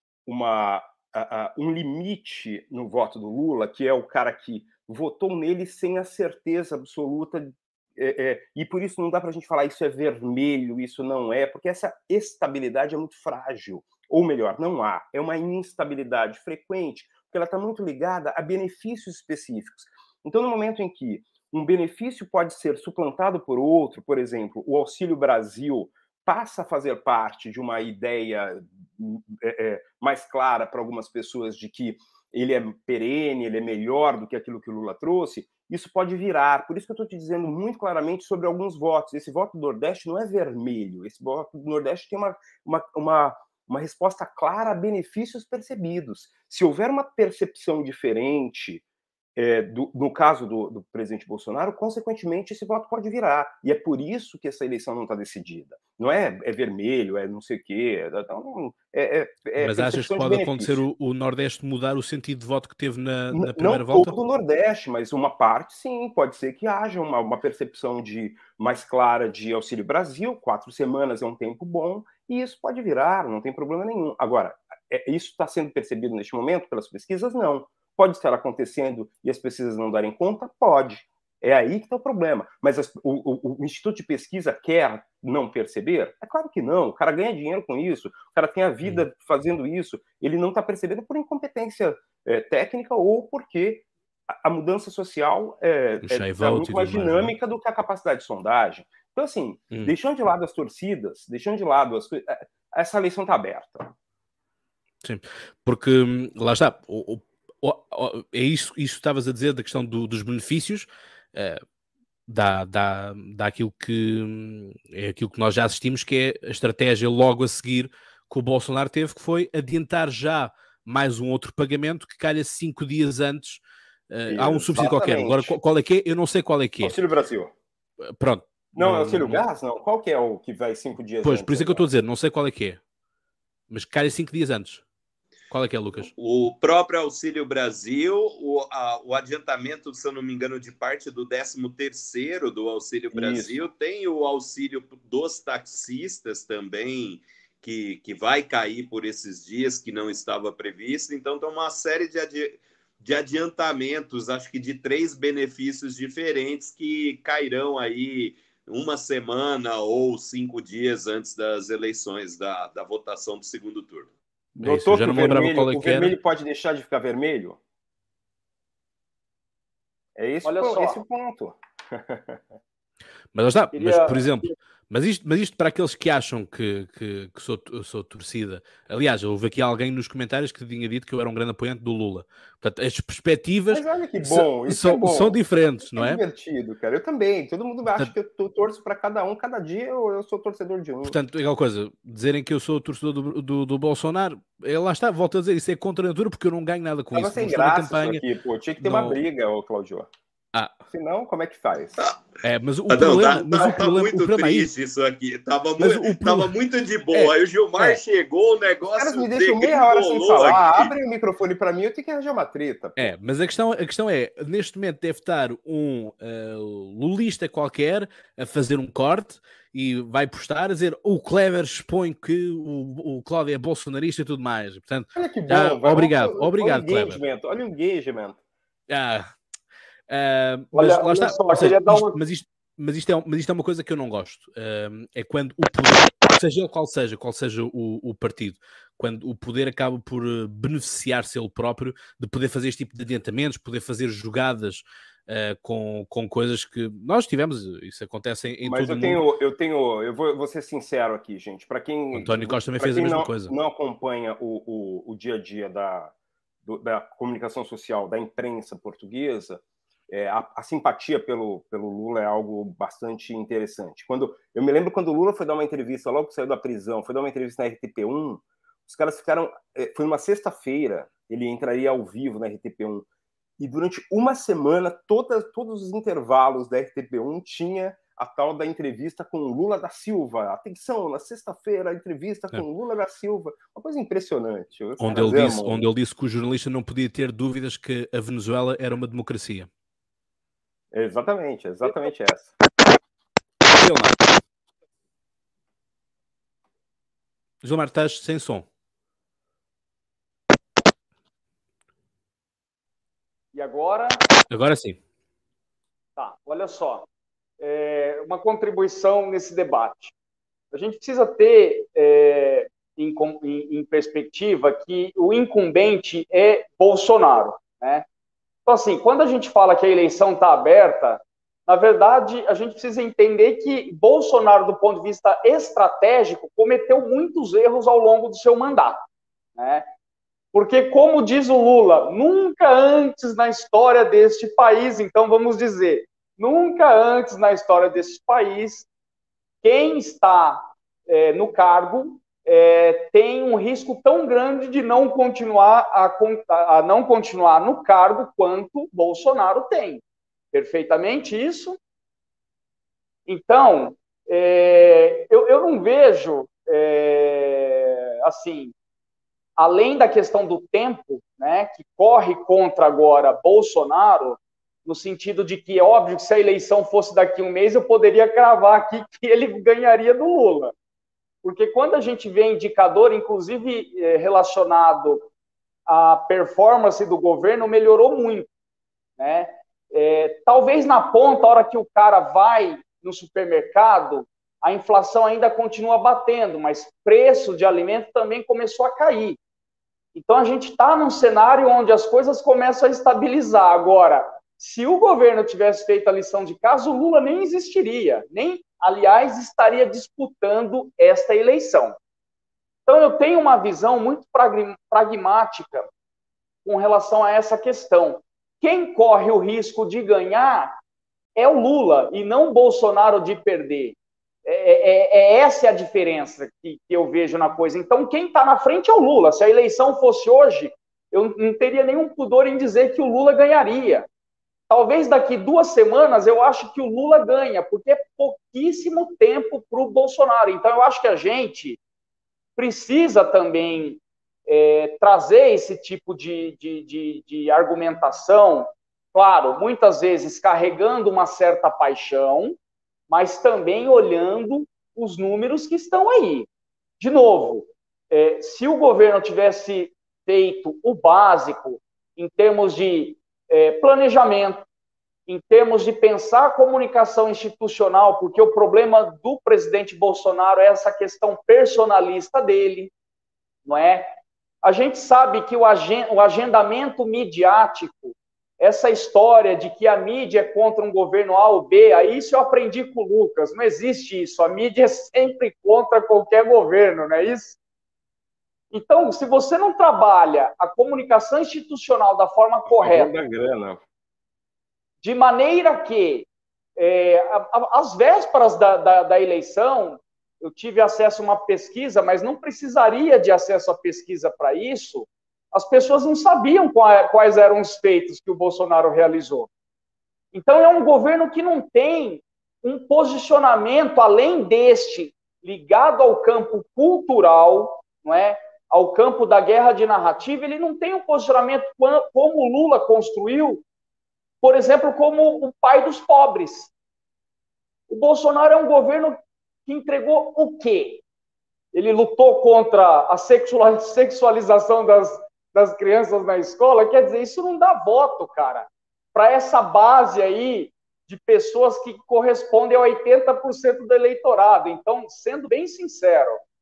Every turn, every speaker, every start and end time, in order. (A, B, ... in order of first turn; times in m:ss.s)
0:00.2-0:48.8 A
0:49.4-1:00.8 A
0:59.6-1:04.1 B
1:03.3-1:43.9 A
1:36.0-1:37.3 B
1:45.0-1:51.6 B
1:52.3-2:07.0 B
2:04.3-2:05.6 A
2:06.8-2:07.5 A
2:08.1-2:09.4 B
2:08.7-2:11.9 A
2:11.2-2:12.8 B
2:13.7-2:14.8 B
2:15.5-2:16.1 B
2:16.1-2:44.1 C
2:23.1-2:23.6 A
2:44.5-2:47.6 A
2:44.6-2:46.1 B
2:50.2-2:52.4 A
2:50.4-2:51.0 D
2:53.3-3:06.2 B
2:53.7-2:54.5 D
3:03.7-3:11.2 A
3:11.0-3:18.2 B
3:17.1-3:20.1 A
3:18.8-3:19.2 B
3:20.5-3:20.8 B
3:20.9-3:21.9 A
3:22.0-3:22.2 C
3:22.4-3:24.7 B
3:22.9-3:30.9 C
3:25.8-3:26.5 B
3:27.1-3:28.0 B
3:28.9-3:33.1 A
3:33.0-3:47.2 B
3:45.1-3:48.4 A
3:48.9-3:49.3 B
3:50.1-4:09.2 B
3:50.7-3:52.2 D
4:08.6-4:16.1 A
4:12.1-4:13.5 B
4:16.6-4:33.0 A
4:33.6-4:45.9 A
4:45.0-4:49.7 B
4:50.9-4:52.5 A
4:53.6-4:54.3 B
4:57.6-4:58.7 B
5:03.5-5:04.2 D
5:04.5-5:05.0 B
5:06.2-5:07.1 D
5:07.6-5:10.1 D
5:10.7-5:18.0 D
5:18.6-5:29.8 D
5:30.5-5:38.9 D
5:39.6-5:50.0 D
5:50.5-5:51.8 D
5:53.3-5:58.7 D
5:59.6-6:10.7 D
6:11.4-6:15.2 D
6:15.9-6:18.5 D
6:19.2-6:29.4 D
6:30.1-6:42.0 D
6:42.8-6:45.9 D
6:46.6-6:50.8 D
6:51.4-7:04.1 D
7:04.7-7:11.8 D
7:12.6-7:22.6 D
7:23.1-7:26.5 D
7:27.0-7:34.6 D
7:35.3-7:42.9 D
7:43.6-7:44.1 D
7:44.6-7:57.6 D
7:58.7-8:03.1 D
8:02.6-8:03.8 A
8:05.0-8:19.5 D
8:20.3-8:33.6 D
8:34.4-8:36.7 D
8:37.9-8:41.0 D
8:41.7-8:56.4 D